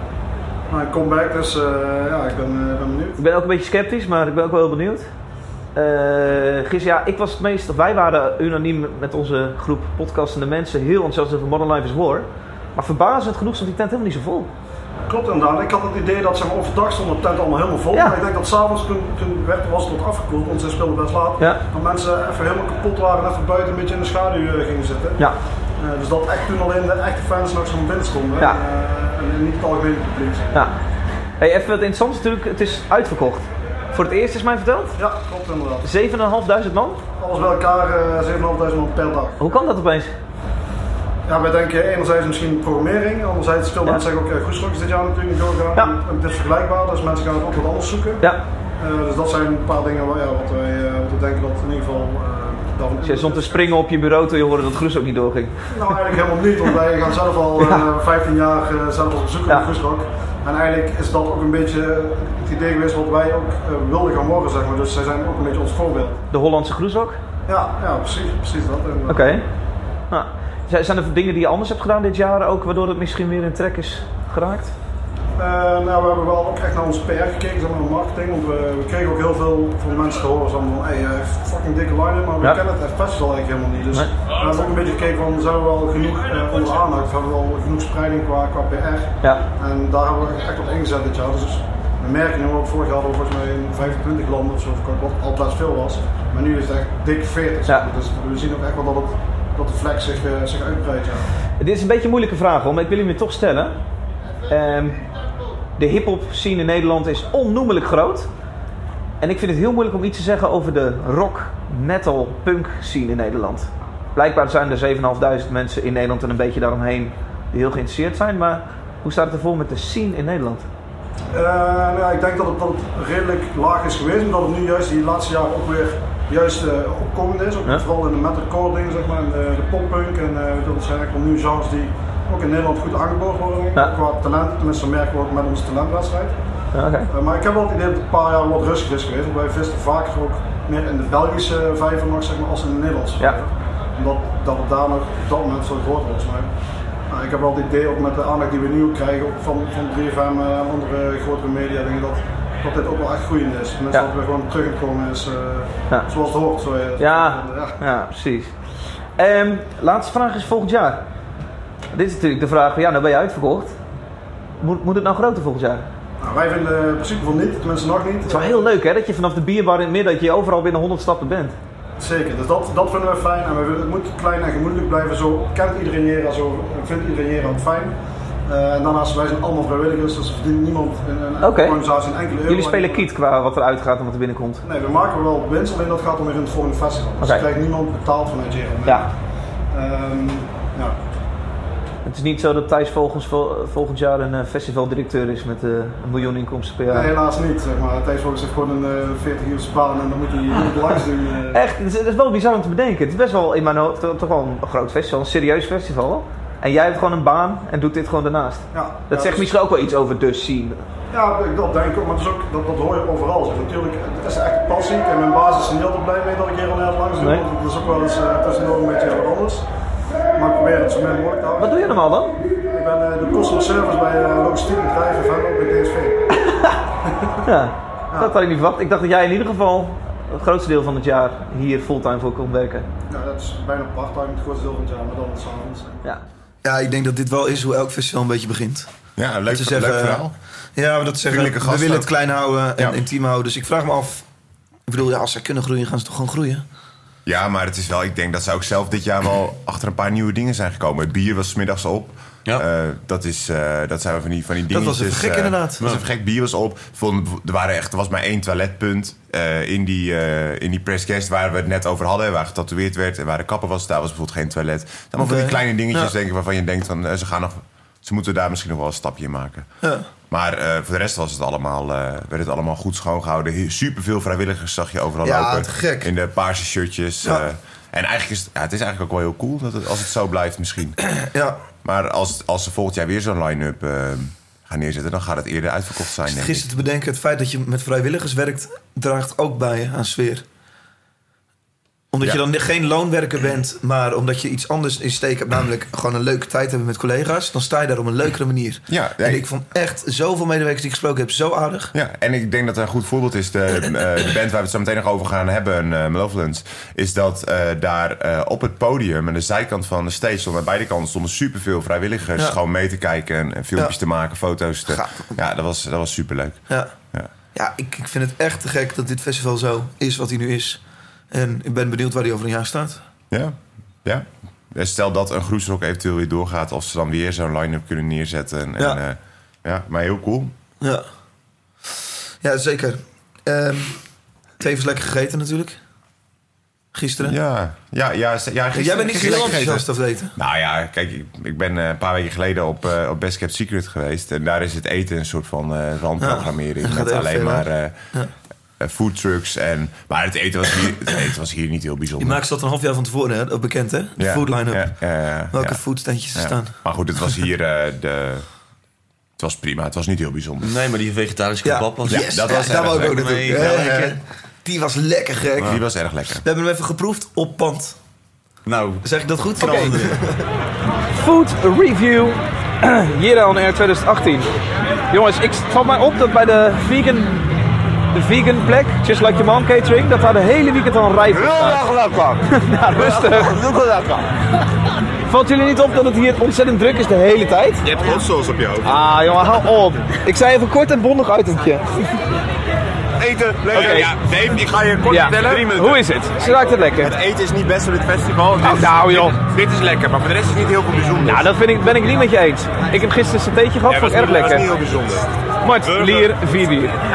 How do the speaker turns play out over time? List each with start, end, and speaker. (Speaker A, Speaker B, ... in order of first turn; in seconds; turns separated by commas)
Speaker A: 0.7-3.2, Speaker B: 3.2-5.1, Speaker B: 5.8-14.5, Speaker A: 15.1-25.2, Speaker B: 17.9-18.2, Speaker A: 25.8-30.7, Speaker B: 31.4-35.0, Speaker A: 35.0-35.9, Speaker B: 35.8-37.0, Speaker A: 37.2-39.4, Speaker B: 39.4-40.1, Speaker A: 41.3-48.2, Speaker A: 48.8-53.7, Speaker B: 53.0-56.0, Speaker A: 55.7-66.2, Speaker B: 66.3-67.2, Speaker A: 67.5-69.3, Speaker B: 69.1-69.4, Speaker B: 70.1-74.7, Speaker A: 75.4-101.2, Speaker B: 101.6-103.7, Speaker B: 104.5-105.0, Speaker B: 105.8-108.3, Speaker B: 109.2-120.7, Speaker A: 121.3-136.3, Speaker B: 136.7-137.1, Speaker A: 137.1-146.5, Speaker A: 147.1-157.8, Speaker B: 157.0-158.5, Speaker B: 159.2-161.0, Speaker B: 161.9-163.7, Speaker B: 164.6-165.9, Speaker A: 166.2-168.7, Speaker B: 168.2-171.6, Speaker A: 172.0-177.9, Speaker A: 178.5-183.1, Speaker B: 181.4-181.8, Speaker B: 182.5-184.6, Speaker A: 184.6-189.1, Speaker B: 187.2-187.5, Speaker A: 189.7-191.0, Speaker B: 192.1-197.1, Speaker A: 196.9-201.6, Speaker B: 201.5-210.8, Speaker A: 208.7-209.5, Speaker A: 211.1-219.7, Speaker B: 217.2-217.4, Speaker A: 220.3-221.9, Speaker B: 221.6-222.4, Speaker A: 222.7-226.3, Speaker B: 226.3-226.8, Speaker A: 227.1-227.4, Speaker B: 227.4-232.9, Speaker A: 233.1-236.1, Speaker C: 236.6-238.9, Speaker D: 239.2-240.3, Speaker C: 239.5-244.2, Speaker D: 241.3-242.1, Speaker C: 244.9-246.6, Speaker D: 247.3-269.7, Speaker C: 254.7-255.8, Speaker C: 265.2-266.1, Speaker D: 270.3-281.1, Speaker C: 275.2-276.1, Speaker C: 281.2-281.6, Speaker D: 281.8-286.7, Speaker C: 286.3-290.4, Speaker C: 292.1-301.9, Speaker D: 298.9-299.4, Speaker D: 301.9-317.3, Speaker C: 314.9-315.4, Speaker C: 317.5-320.8, Speaker C: 321.3-323.0, Speaker D: 323.3-330.5, Speaker C: 332.4-334.0, Speaker C: 334.6-335.8, Speaker C: 336.9-337.4, Speaker D: 337.2-348.1, Speaker C: 338.7-340.3, Speaker C: 346.2-348.3, Speaker D: 348.8-352.4, Speaker C: 352.2-355.0, Speaker D: 354.2-355.8, Speaker C: 355.5-356.8, Speaker D: 356.4-358.4, Speaker D: 359.4-360.7, Speaker E: 360.6-364.2, Speaker C: 361.6-365.8, Speaker D: 362.1-363.4, Speaker D: 365.6-366.4, Speaker C: 366.4-368.0, Speaker E: 368.7-369.1, Speaker C: 369.0-370.4, Speaker E: 369.6-370.2, Speaker B: 369.6-369.9, Speaker B: 371.1-374.5, Speaker B: 375.1-377.5, Speaker B: 378.1-381.9, Speaker D: 381.3-382.4, Speaker B: 382.4-383.6, Speaker D: 383.0-384.2, Speaker B: 385.3-387.9, Speaker D: 387.8-388.9, Speaker B: 388.8-392.0, Speaker D: 393.2-396.0, Speaker B: 393.7-394.1, Speaker B: 395.1-397.1, Speaker D: 396.9-401.5, Speaker B: 398.6-399.4, Speaker B: 401.2-404.7, Speaker D: 403.9-405.3, Speaker B: 405.6-407.0, Speaker D: 405.8-406.3